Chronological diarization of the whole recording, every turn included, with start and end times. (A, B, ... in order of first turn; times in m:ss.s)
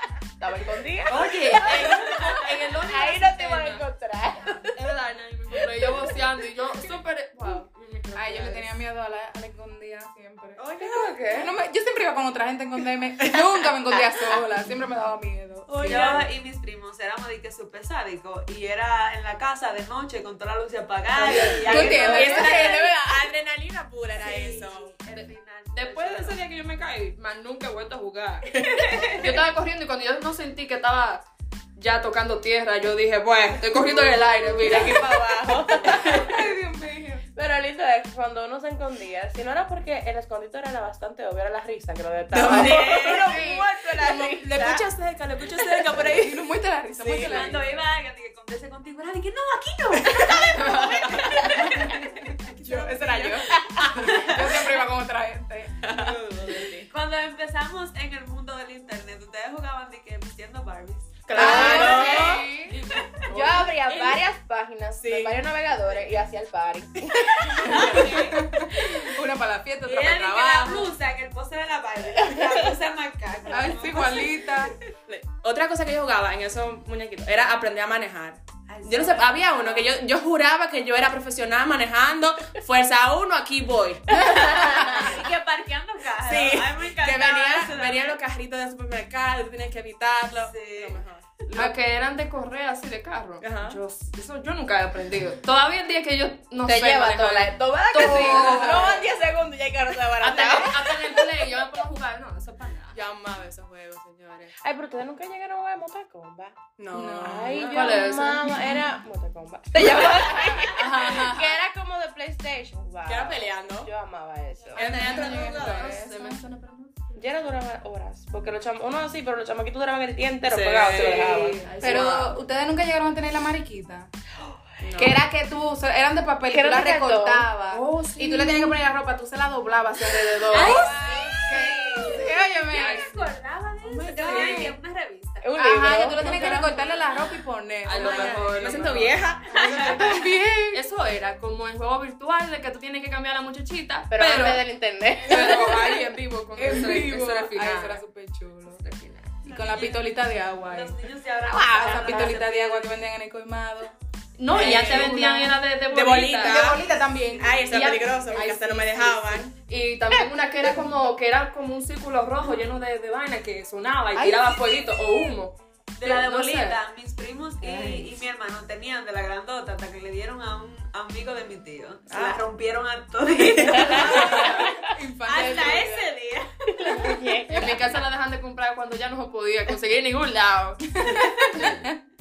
0:00.4-0:04.8 A
0:01.1-0:03.8 B
0:01.5-0:02.3 C
0:04.7-0:08.6 B
0:05.5-0:06.1 A
0:07.7-0:08.6 A
0:08.1-0:10.7 D
0:10.8-0:11.4 B
0:11.3-0:16.2 D
0:15.8-0:22.8 C
0:15.8-0:16.2 B
0:15.9-0:16.2 A
0:21.2-0:22.2 B
0:21.4-0:24.9 E
0:21.6-0:23.2 D
0:24.2-0:26.4 C
0:25.1-0:31.2 B
0:28.6-0:29.4 C
0:31.8-0:35.0 B
0:34.5-0:36.2 A
0:34.6-0:36.1 E
0:35.9-0:37.2 D
0:37.4-0:44.8 A
0:42.3-0:47.6 E
0:42.4-0:43.2 C
0:45.9-0:47.7 D
0:47.2-0:52.3 C
0:50.3-0:56.1 D
0:53.3-0:54.1 A
0:53.8-0:54.2 E
0:55.9-0:56.8 E
0:56.0-1:04.2 C
1:01.2-1:02.5 E
1:01.3-1:02.4 A
1:01.4-1:02.4 D
1:01.4-1:02.8 B
1:03.3-1:08.1 A
1:05.0-1:05.4 E
1:07.6-1:08.6 C
1:07.6-1:10.9 D
1:09.8-1:14.7 C
1:13.5-1:14.8 D
1:15.1-1:25.2 E
1:18.7-1:19.9 C
1:24.3-1:24.9 D
1:24.4-1:28.2 C
1:26.2-1:31.3 E
1:30.4-1:31.0 C
1:31.5-1:39.0 B
1:33.4-1:33.8 E
1:36.6-1:41.2 A
1:38.0-1:39.0 D
1:40.2-1:43.0 B
1:42.9-1:44.5 E
1:44.6-1:46.6 A
1:46.8-1:48.1 E
1:46.9-1:47.6 D
1:47.1-1:54.9 A
1:47.7-1:48.6 B
1:48.4-1:48.8 D
1:50.4-1:51.6 D
1:53.0-1:53.9 E
1:54.7-1:56.0 E
1:54.7-1:56.4 D
1:54.7-1:57.2 B
1:57.1-2:02.4 A
2:00.5-2:01.2 E
2:00.7-2:02.3 B
2:01.8-2:04.1 D
2:04.8-2:05.2 E
2:05.0-2:13.2 D
2:06.5-2:07.5 A
2:07.7-2:08.8 B
2:10.1-2:12.1 B
2:10.5-2:15.5 C
2:10.5-2:12.2 A
2:12.7-2:13.3 B
2:13.9-2:14.7 E
2:14.1-2:14.8 D
2:14.2-2:14.7 B
2:15.4-2:16.5 A
2:15.6-2:20.8 D
2:16.2-2:17.0 B
2:16.2-2:17.3 C
2:17.8-2:19.2 B
2:18.0-2:20.2 E
2:19.5-2:19.9 C
2:20.7-2:24.6 B
2:24.1-2:25.9 A
2:25.2-2:28.0 B
2:25.3-2:28.8 D
2:28.8-2:29.4 B
2:29.4-2:33.9 D
2:29.4-2:33.1 C
2:31.8-2:32.4 A
2:34.4-2:36.7 B
2:34.5-2:35.6 D
2:34.5-2:35.2 E
2:35.8-2:36.8 E
2:36.4-2:37.7 D
2:37.4-2:39.5 E
2:37.6-2:46.8 B
2:44.1-2:44.6 D
2:46.0-2:57.2 C
2:47.6-2:48.1 B
2:52.1-2:52.4 E
2:53.5-2:54.5 E
2:53.7-2:54.7 A
2:54.0-2:56.1 D
2:56.8-2:57.8 A
2:57.5-3:01.6 B
3:01.0-3:02.0 D